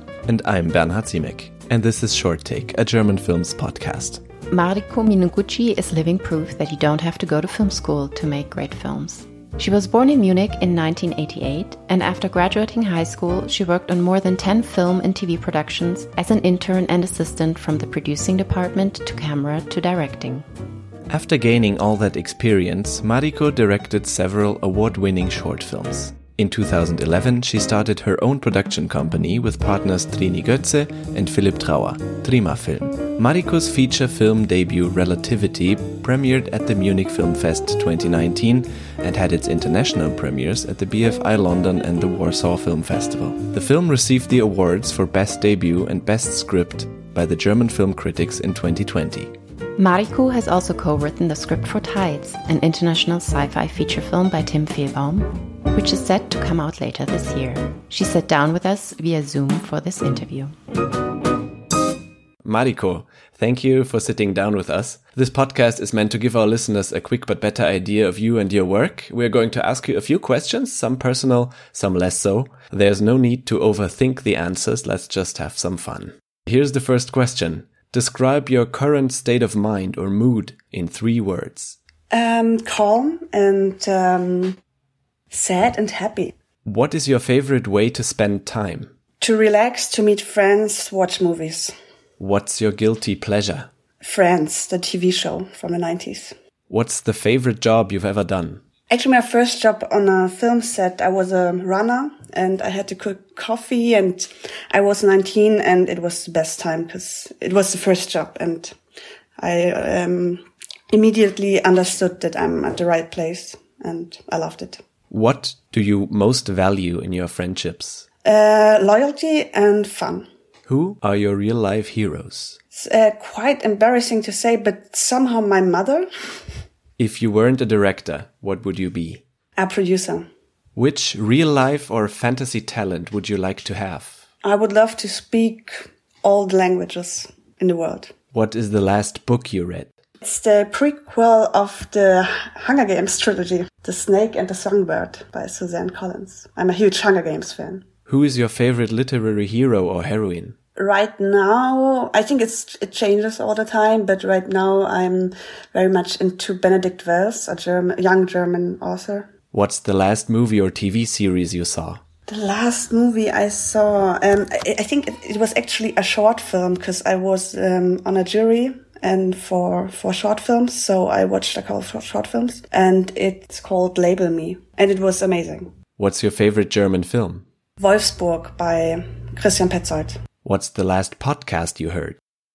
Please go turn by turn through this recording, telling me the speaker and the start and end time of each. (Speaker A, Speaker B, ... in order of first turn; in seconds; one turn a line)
Speaker A: 0.3-4.2
Speaker B: 4.5-20.5
Speaker A: 21.1-49.3
Speaker B: 49.8-60.5
Speaker A: 62.4-81.8
Speaker C: 82.1-84.6
Speaker C: 85.3-86.3
Speaker A: 86.7-88.9
Speaker C: 89.2-91.7
Speaker A: 92.2-93.7
Speaker C: 94.0-96.3
Speaker A: 96.7-98.6
Speaker C: 98.9-108.8
Speaker C: 109.4-114.8
Speaker A: 115.1-118.1
Speaker C: 118.2-120.3
Speaker A: 120.7-122.6
Speaker C: 122.7-126.1
Speaker A: 127.0-129.2
Speaker C: 129.6-130.3
Speaker A: 130.8-134.2
Speaker C: 134.4-138.1
Speaker A: 138.3-139.9
Speaker C: 140.2-147.8
Speaker A: 148.1-150.6
Speaker C: 150.8-159.3
Speaker A: 159.5-162.0
Speaker C: 162.3-175.7
Speaker A: 176.0-177.4
Speaker C: 177.8-180.2
Speaker A: 180.4-182.2